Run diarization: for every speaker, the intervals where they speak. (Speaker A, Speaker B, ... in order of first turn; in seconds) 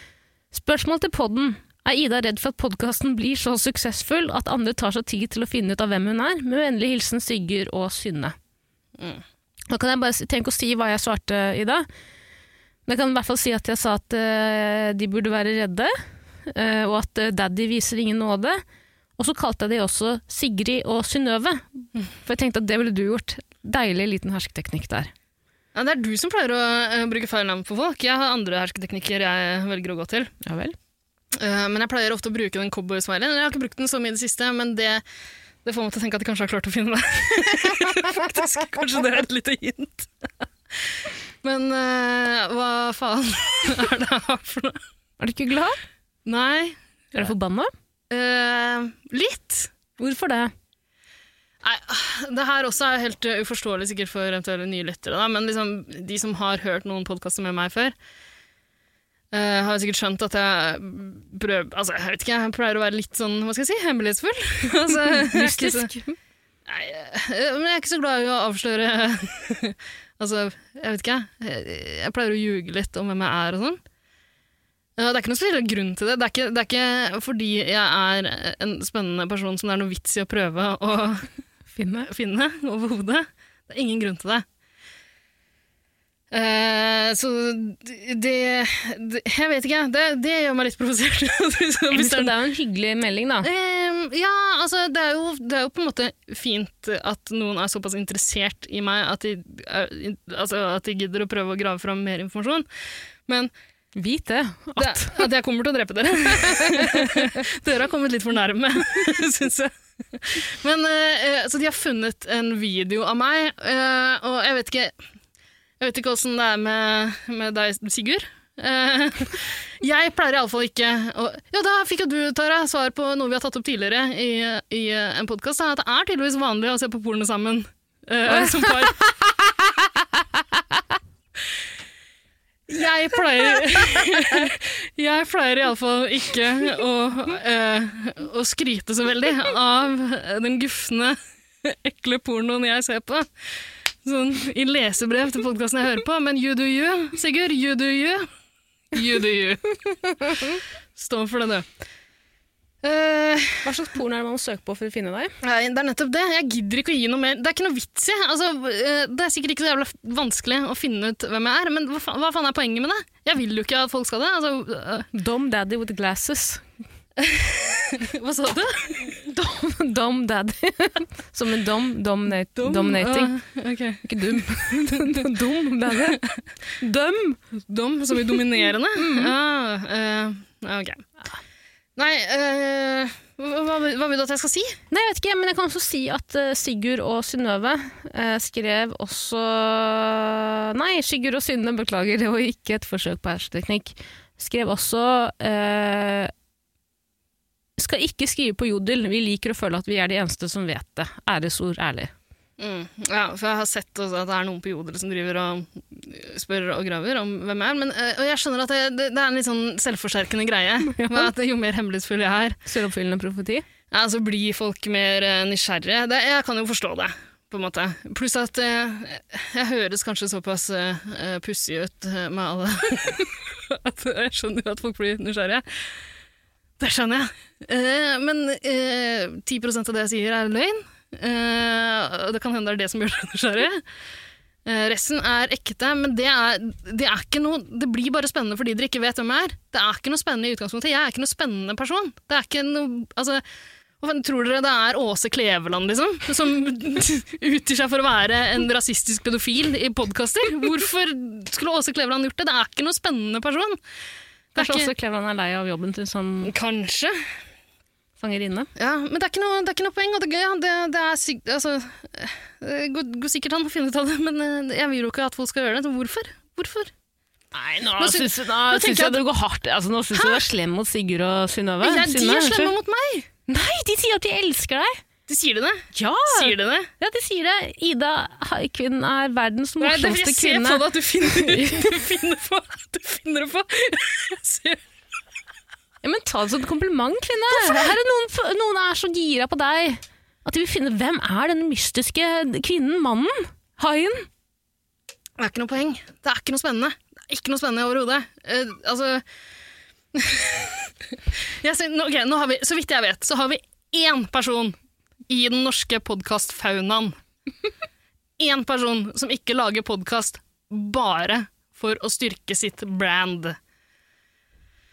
Speaker A: 0.5-8.3, 9.7-11.9, 12.9-15.9, 16.5-18.6, 19.2-25.1, 30.4-30.8, 45.2-45.8, 47.1-47.7, 50.0-50.5, 64.9-66.2, 81.7-82.1, 91.9-93.5, 104.0-105.2, 106.4-107.3, 150.2-150.5, 153.6-155.3, 165.1-166.6, 169.2-173.3, 174.0-176.2, 176.8-177.4, 179.0-179.3, 184.9-196.3, 197.8-202.1, 210.8-211.3, 212.7-213.7, 254.6-256.5, 258.2-258.7, 267.5-272.8, 273.5-275.0, 275.9-282.0, 286.0-294.3
Speaker B: 25.8-30.3, 31.4-35.0, 35.6-40.3, 41.4-44.8, 46.3-46.8, 48.1-49.7, 51.6-58.0, 59.3-65.9, 66.7-73.8, 75.0-81.3, 82.1-84.5, 86.3-92.3, 93.4-102.7, 104.8-114.9, 115.8-129.0, 132.7-148.3, 148.9-151.7, 152.8-153.8, 155.4-165.1, 167.2-169.2, 172.6-175.1, 177.7-181.1, 182.0-184.8, 202.6-212.6, 213.9-225.8, 226.8-233.8, 234.7-243.4, 244.0-253.8, 254.6-254.9, 256.4-257.2, 258.8-266.9, 268.0-269.2, 270.1-270.4, 271.8-273.3, 275.3-276.9, 279.8-284.8, 287.5-287.9, 295.4-299.2, 300.1-300.9, 301.5-304.8, 305.3-307.2, 308.4-313.6